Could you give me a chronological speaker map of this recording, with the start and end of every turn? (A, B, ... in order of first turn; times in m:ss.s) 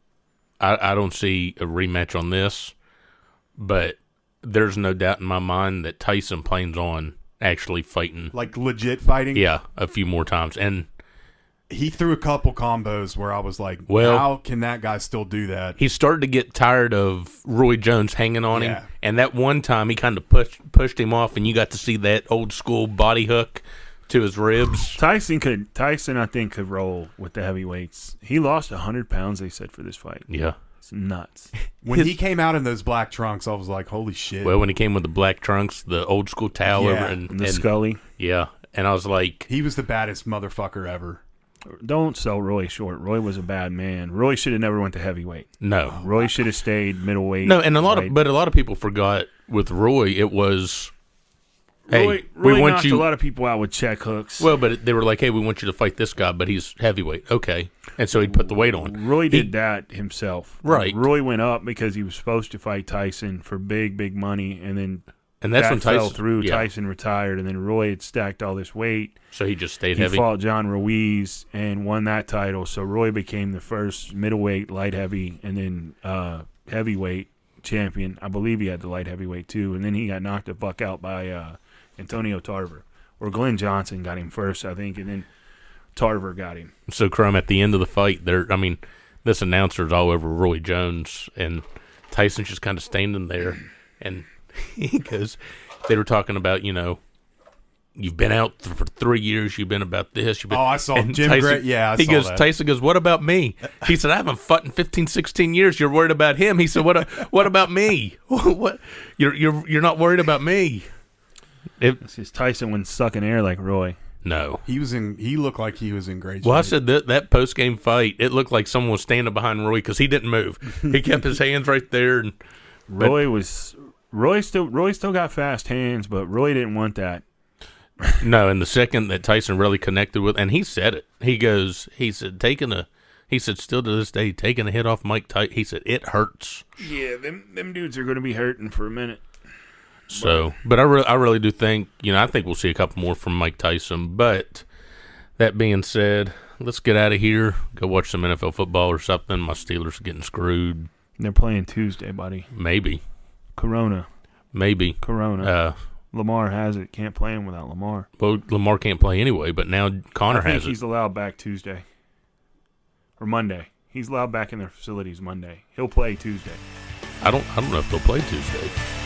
0:00.6-0:02.7 A
0:03.6-0:08.3 A
0:08.3-0:09.5 B
0:09.3-0:10.9 A
0:11.7-0:15.8 B
0:13.9-0:14.3 A
0:15.8-0:25.0 A
0:18.5-0:18.9 B
0:25.0-0:30.3 C
0:30.3-0:30.6 A
0:30.8-0:31.5 C
0:31.8-0:34.6 B
0:34.4-0:39.5 A
0:36.7-0:37.2 B
0:37.3-0:38.0 C
0:39.5-0:41.2 B
0:41.8-0:48.2 C
0:45.6-0:46.1 A
0:47.4-0:50.9 A
0:51.9-0:54.5 C
0:51.9-0:53.1 A
0:54.4-0:59.5 A
0:58.1-1:09.2 C
1:00.6-1:01.0 A
1:05.4-1:06.7 A
1:09.3-1:10.2 A
1:10.0-1:25.3 C
1:26.0-1:26.7 C
1:26.9-1:37.0 A
1:38.0-1:50.9 A
1:40.5-1:42.5 B
1:52.0-1:54.0 C
1:54.2-1:54.6 A
1:54.7-1:56.8 B
1:56.4-2:02.3 A
2:02.9-2:07.2 C
2:08.2-2:16.6 A
2:16.8-2:19.2 C
2:20.1-2:24.6 A
2:20.1-2:20.5 C
2:25.4-2:30.9 A
2:31.2-2:32.5 C
2:32.5-2:33.0 A
2:33.6-2:34.1 C
2:34.5-2:35.8 A
2:35.0-2:35.5 C
2:36.1-2:38.1 C
2:38.2-2:40.8 A
2:40.3-2:41.8 C
2:43.2-2:46.6 C
2:47.2-2:48.8 A